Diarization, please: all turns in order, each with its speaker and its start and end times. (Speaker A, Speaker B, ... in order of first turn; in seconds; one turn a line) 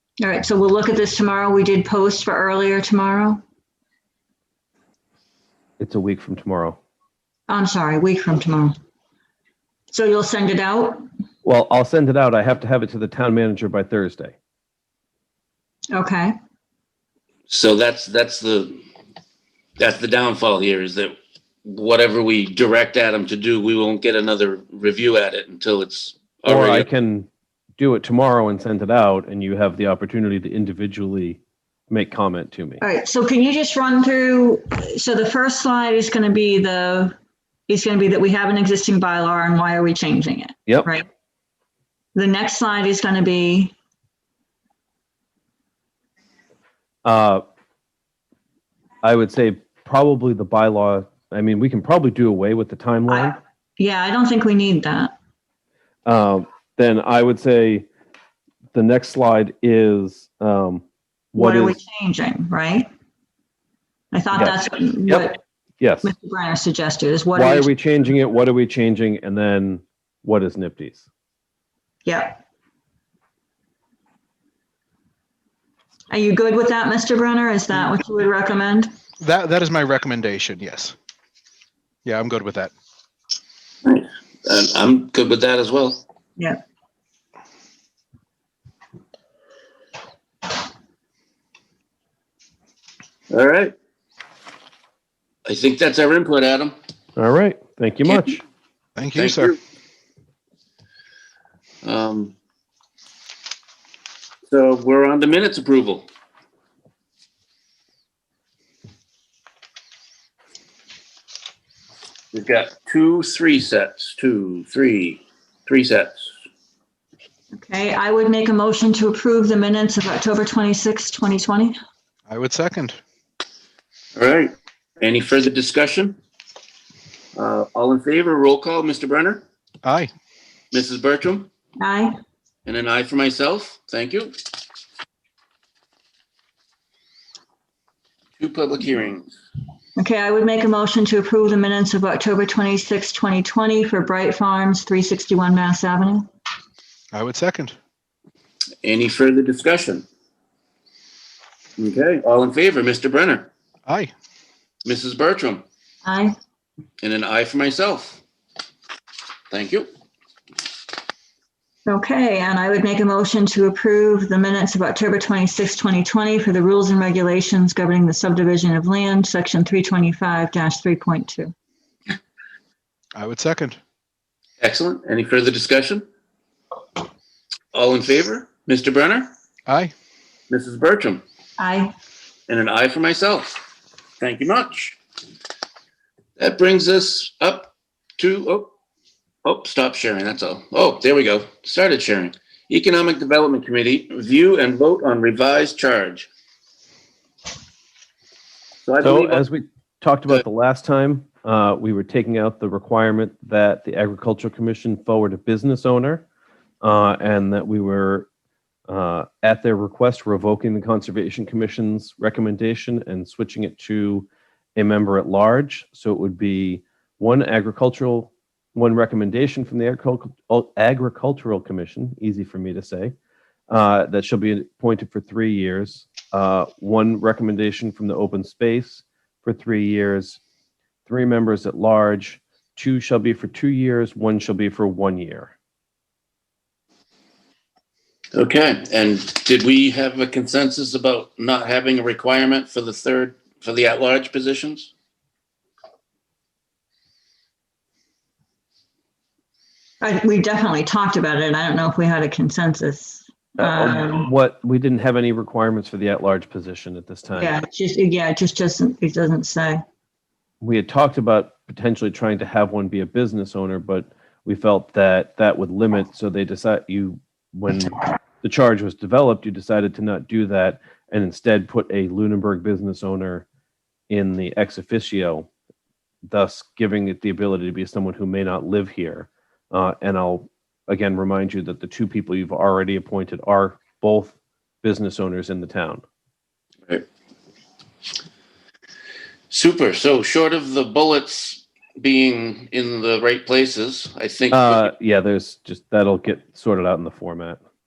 Speaker A: 0.2-3.4
Speaker B: 5.8-6.8
Speaker A: 7.5-8.7
Speaker A: 9.9-11.1
Speaker B: 11.4-14.3
Speaker A: 15.9-16.4
Speaker C: 17.5-18.8
Speaker C: 19.8-26.9
Speaker B: 26.5-32.8
Speaker A: 32.8-37.1
Speaker A: 37.7-41.0
Speaker A: 42.1-43.7
Speaker B: 47.0-47.4
Speaker B: 49.0-53.4
Speaker A: 53.1-55.1
Speaker B: 56.0-57.9
Speaker B: 58.7-61.8
Speaker A: 61.4-62.9
Speaker A: 64.1-65.4
Speaker B: 64.3-65.3
Speaker B: 65.8-66.1
Speaker A: 66.0-67.7
Speaker B: 67.3-71.0
Speaker A: 72.0-72.4
Speaker A: 76.1-78.9
Speaker D: 79.2-80.9
Speaker D: 82.0-82.7
Speaker C: 83.8-86.0
Speaker C: 93.3-93.7
Speaker C: 95.5-96.7
Speaker B: 97.2-98.4
Speaker D: 99.0-99.5
Speaker C: 99.1-99.6
Speaker C: 101.8-102.3
Speaker C: 104.5-106.1
Speaker C: 112.3-116.3
Speaker A: 117.5-121.8
Speaker D: 122.3-123.0
Speaker C: 124.2-126.2
Speaker C: 127.3-129.4
Speaker D: 129.8-130.1
Speaker C: 130.7-131.5
Speaker A: 131.8-132.2
Speaker C: 132.7-134.4
Speaker C: 138.4-139.3
Speaker A: 140.0-146.3
Speaker D: 147.1-147.8
Speaker C: 148.8-150.0
Speaker C: 151.8-153.5
Speaker D: 153.8-154.1
Speaker C: 154.8-155.6
Speaker A: 156.0-156.3
Speaker C: 157.0-158.2
Speaker C: 159.5-159.9
Speaker A: 161.8-171.5
Speaker D: 173.1-173.8
Speaker C: 174.6-176.1
Speaker C: 177.7-179.3
Speaker D: 179.7-179.9
Speaker C: 180.5-181.2
Speaker A: 181.6-181.9
Speaker C: 182.5-183.6
Speaker C: 184.2-185.0
Speaker C: 186.4-188.7
Speaker C: 189.4-196.3
Speaker C: 198.8-199.4
Speaker B: 199.0-206.2
Speaker B: 206.8-208.3
Speaker B: 208.9-223.1
Speaker B: 223.7-230.4
Speaker B: 231.1-235.5
Speaker C: 238.3-244.9
Speaker A: 250.0-254.3
Speaker B: 253.6-257.6
Speaker A: 257.4-259.8
Speaker B: 260.6-273.4
Speaker B: 274.1-275.5
Speaker B: 276.3-286.0
Speaker C: 289.5-294.9
Speaker B: 294.5-297.6